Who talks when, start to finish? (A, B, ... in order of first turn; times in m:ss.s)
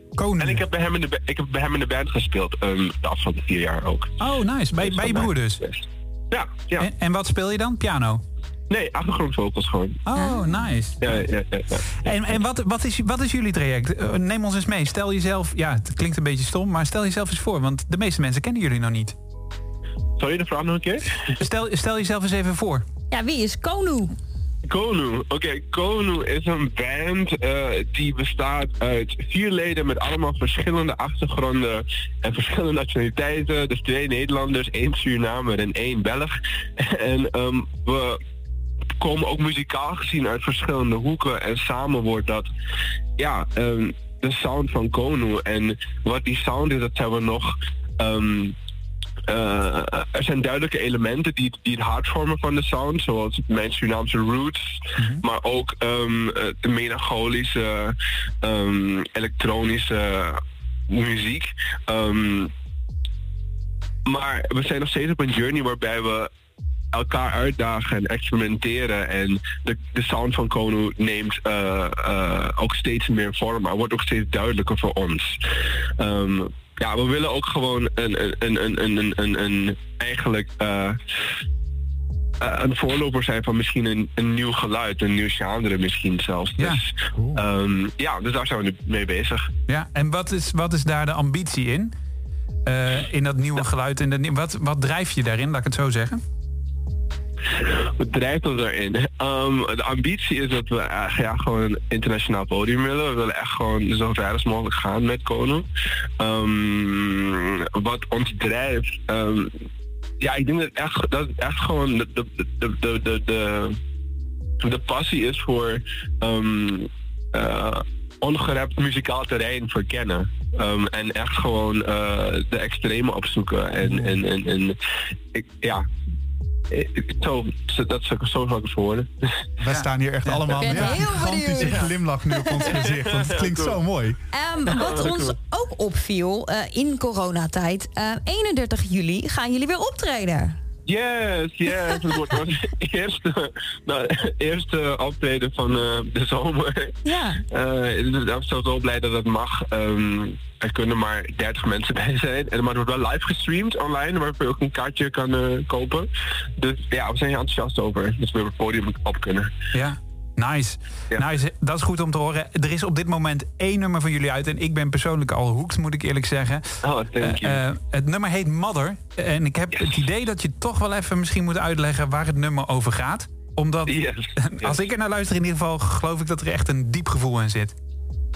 0:00.2-0:00.6 A
0:00.4-0:04.2 B
0:04.2-0:05.6 A
0:04.8-0:06.9 B
0:06.8-0:08.2 A
0:08.7-0:10.0 B
0:10.1-0:11.2 A
0:10.1-0:10.7 C
0:11.0-0:12.1 B
0:12.0-0:19.2 A
0:20.2-0:21.3 B
0:21.4-0:22.8 A
0:23.1-0:24.1 C
0:24.6-0:38.2 B
0:39.0-0:42.5 B
0:43.2-0:48.6 B
0:49.3-1:02.5 B
1:04.0-1:06.3 B
1:06.9-1:15.4 B
1:16.0-1:21.0 B
1:22.4-1:29.5 B
1:29.7-1:31.9 A
1:32.6-1:36.2 A
1:37.6-1:45.6 B
1:46.2-1:49.6 B
1:50.2-1:53.8 B
1:54.6-2:04.8 B
2:03.8-2:04.1 D
2:05.3-2:05.8 B
2:06.7-2:09.4 B
2:09.6-2:14.2 D
2:09.7-2:11.1 A
2:10.6-2:12.8 C
2:12.6-2:13.8 B
2:14.3-2:20.6 C
2:14.7-2:15.4 B
2:20.9-2:27.0 B
2:27.0-2:27.4 C
2:27.5-2:39.5 B
2:39.7-2:46.6 A
2:46.8-2:47.6 B
2:47.2-2:57.7 A
2:53.9-2:54.8 B